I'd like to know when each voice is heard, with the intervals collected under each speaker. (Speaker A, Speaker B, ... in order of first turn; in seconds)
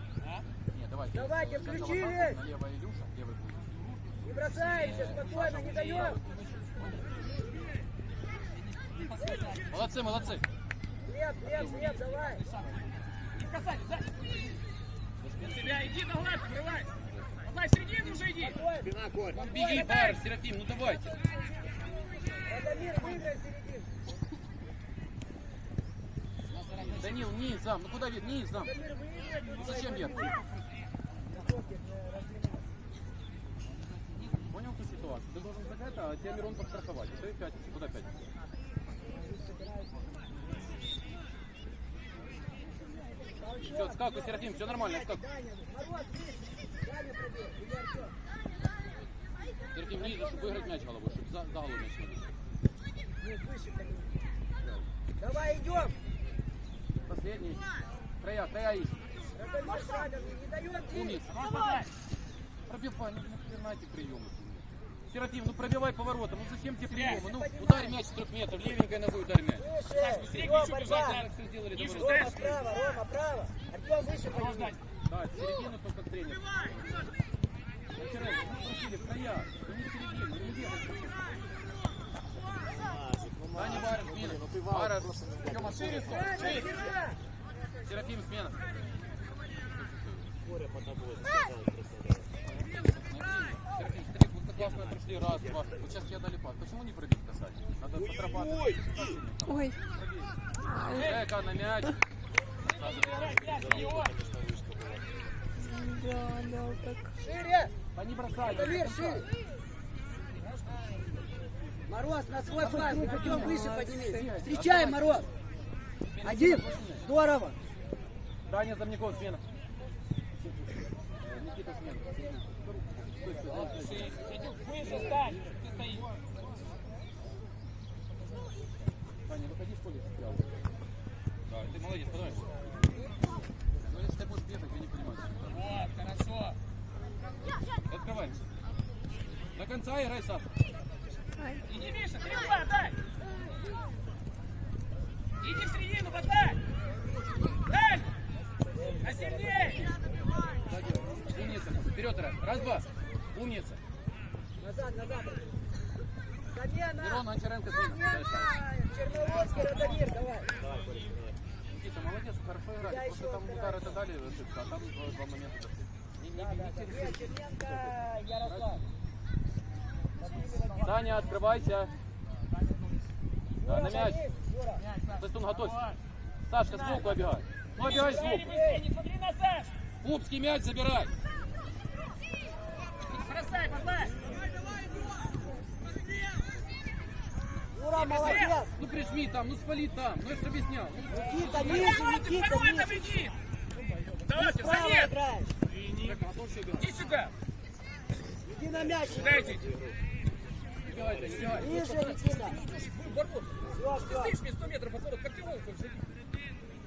Speaker A: 0.7-3.8, 4.3-6.7, 9.7-10.4, 11.5-12.0, 15.2-15.8, 19.3-21.1, 26.8-28.7, 29.6-30.4, 34.5-38.2, 43.6-45.2, 49.7-52.3, 57.1-57.6, 58.2-59.0, 60.9-61.3, 62.7-69.7, 70.8-72.7, 75.1-77.1, 77.9-81.4, 83.5-86.8, 87.8-88.6, 89.7-90.3, 92.5-100.3, 100.9-102.0, 107.9-109.3, 112.5-115.3, 116.2-117.0, 118.5-119.4, 120.4-124.2, 129.3-130.5, 131.5-132.5, 133.8-135.8, 137.9-138.4, 139.6-140.5, 150.7-153.8, 157.0-158.6, 161.7-168.7, 170.8-171.9, 173.7-174.2, 175.2-175.8, 176.5-178.5, 180.0-181.1, 188.3-192.0, 196.0-196.9, 200.8-202.0
Speaker B: 1.1-2.4, 4.2-6.2, 11.1-12.4, 18.4-20.1, 20.9-21.7, 22.4-23.9, 28.6-30.4, 31.3-32.7, 39.0-40.1, 43.4-48.1, 49.9-50.8, 53.2-54.2, 55.2-56.0, 59.4-61.2, 67.0-68.0, 69.6-71.2, 71.9-74.8, 86.0-87.2, 107.2-107.7, 108.4-109.3, 111.9-115.3, 116.2-117.6, 123.5-124.0, 148.7-150.0, 154.6-155.5, 156.5-160.5, 162.8-164.0, 166.3-168.8, 170.2-171.3, 173.6-174.8, 177.8-178.8, 187.7-188.7, 191.1-193.1, 194.3-195.5, 198.5-199.5, 201.5-202.6, 203.7-204.4
Speaker C: 4.5-7.0, 8.6-10.4, 11.5-12.8, 13.3-14.2, 15.4-16.9, 17.4-18.6, 19.6-20.2, 26.5-27.3, 29.9-30.7, 61.2-61.9, 66.9-67.2, 69.9-72.5, 74.3-74.8, 85.9-86.7, 101.0-101.2, 102.7-104.1, 123.8-126.1, 135.5-136.6, 141.7-142.9, 145.4-146.6, 147.7-148.1, 149.0-149.9, 159.4-160.1, 172.5-173.0, 174.8-176.0, 176.7-177.3, 177.8-179.8, 183.1-184.2, 187.9-188.6, 191.5-193.4, 194.2-195.1, 196.8-197.3, 199.1-199.6, 201.8-206.0
Speaker D: 18.8-19.4, 82.6-86.8, 90.4-92.3, 94.6-96.0, 97.9-99.2, 102.8-105.2, 160.5-161.4, 198.7-200.0, 200.9-201.8
Speaker E: 99.5-99.8, 100.6-101.2, 105.6-107.1, 113.0-114.2, 141.4-141.6